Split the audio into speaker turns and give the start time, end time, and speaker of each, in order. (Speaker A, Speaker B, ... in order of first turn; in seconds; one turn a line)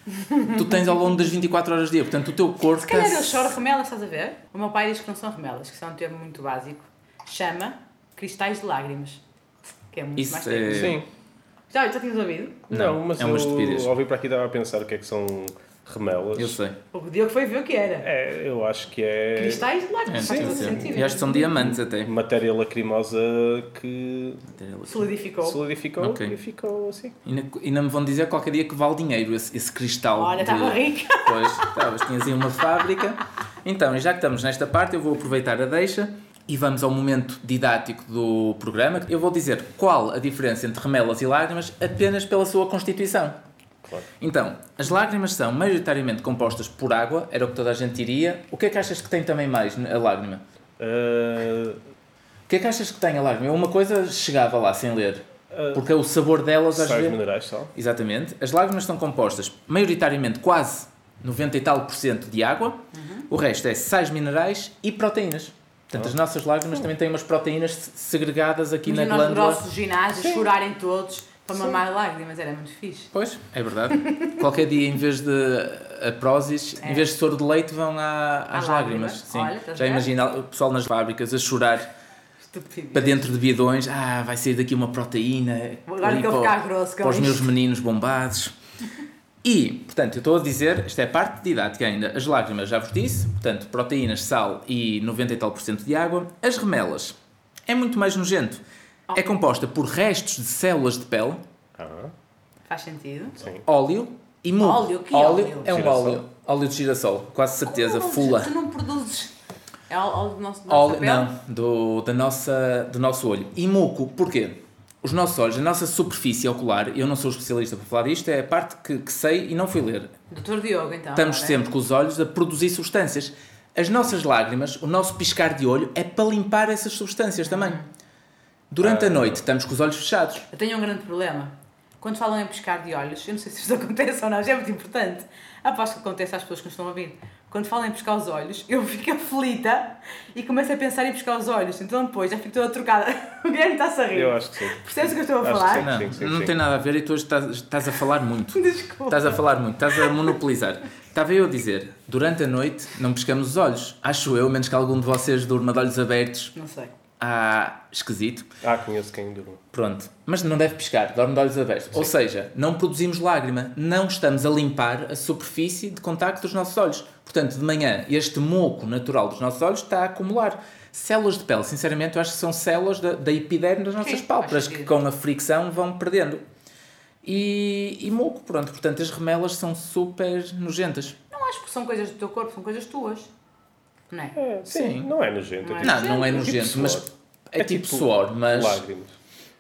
Speaker A: 0.1-1.1
Speaker B: 0.4-3.5
Speaker A: 2.8-9.2
Speaker A: 9.9-11.0
Speaker B: 10.2-11.0
Speaker C: 10.7-11.1
Speaker A: 11.7-12.7
Speaker C: 12.7-16.6
Speaker B: 12.7-13.9
Speaker B: 16.4-16.8
Speaker A: 16.9-18.1
Speaker C: 18.0-24.5
Speaker A: 19.4-21.5
Speaker B: 20.1-22.1
Speaker B: 24.5-25.1
Speaker A: 24.9-25.6
Speaker C: 25.4-27.2
Speaker B: 26.0-26.4
Speaker B: 27.2-43.4
Speaker A: 30.1-31.9
Speaker B: 44.2-50.4
Speaker C: 50.8-51.8
Speaker B: 52.5-57.2
Speaker C: 55.5-55.9
Speaker C: 56.7-57.7
Speaker B: 57.8-69.6
Speaker A: 62.9-63.3
Speaker A: 68.8-73.1
Speaker C: 70.2-70.4
Speaker B: 73.1-81.9
Speaker A: 74.1-74.4
Speaker A: 76.8-77.1
Speaker A: 78.5-80.1
Speaker A: 82.4-83.2
Speaker B: 82.9-88.5
Speaker A: 85.9-87.5
Speaker B: 89.4-97.1
Speaker B: 97.7-98.6
Speaker B: 99.1-101.4
Speaker C: 101.8-102.1
Speaker A: 102.7-103.4
Speaker C: 103.4-103.6
Speaker B: 103.6-108.5
Speaker A: 104.6-105.8
Speaker C: 105.7-106.2
Speaker A: 107.6-109.3
Speaker A: 109.9-111.3
Speaker B: 110.7-120.1
Speaker A: 120.3-121.6
Speaker B: 121.1-127.8
Speaker A: 127.5-127.8
Speaker B: 128.7-130.4
Speaker C: 128.8-129.4
Speaker A: 130.5-145.9
Speaker C: 144.1-146.6
Speaker B: 145.8-156.5
Speaker A: 148.5-149.4
Speaker A: 156.6-156.9
Speaker B: 157.2-158.5
Speaker C: 158.6-159.6
Speaker B: 159.7-176.4
Speaker A: 174.0-174.9
Speaker B: 177.2-181.2
Speaker A: 181.3-183.3
Speaker A: 184.1-184.4
Speaker C: 184.4-189.2
Speaker B: 184.7-185.1
Speaker A: 185.6-186.5
Speaker B: 185.8-188.8